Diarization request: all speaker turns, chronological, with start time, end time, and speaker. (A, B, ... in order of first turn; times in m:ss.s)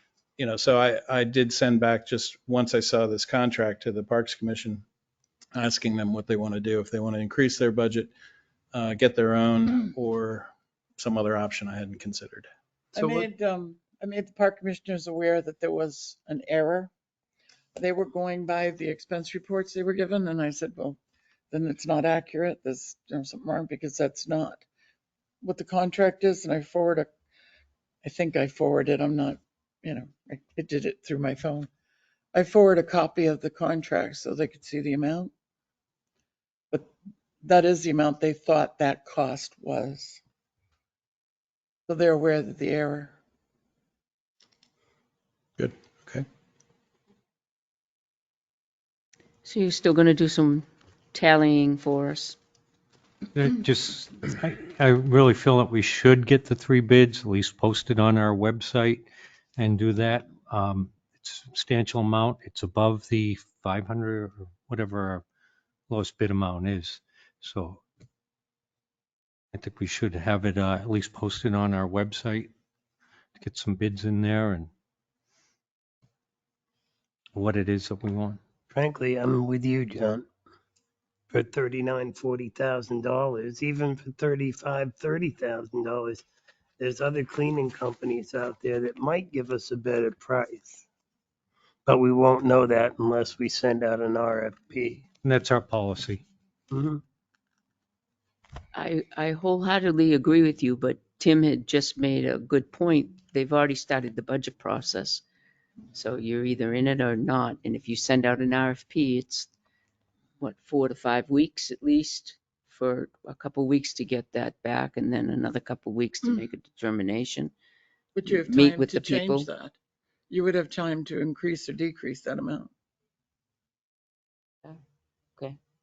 0:00.4-0:04.8 A
0:05.6-0:08.1 A
0:08.7-0:12.5 A
0:12.9-0:16.9 B
0:17.8-0:21.0 B
0:21.5-0:24.6 B
0:25.4-0:27.1 B
0:28.0-0:31.7 B
0:32.3-0:35.3 B
0:37.4-0:40.2 B
0:41.9-0:43.1 B
0:45.6-0:46.2 A
0:49.4-0:52.4 C
0:53.3-1:05.2 D
1:05.9-1:07.8 D
1:09.5-1:12.5 D
1:13.4-1:14.7 D
1:17.3-1:18.4 D
1:18.7-1:20.3 E
1:21.3-1:26.2 E
1:26.8-1:30.8 E
1:31.9-1:35.0 E
1:35.2-1:36.2 D
1:36.7-1:37.0 E
1:38.7-1:45.2 C
1:45.9-1:49.5 C
1:50.4-1:57.5 C
1:58.1-1:59.8 B
1:58.3-1:59.5 C
2:00.3-2:02.7 B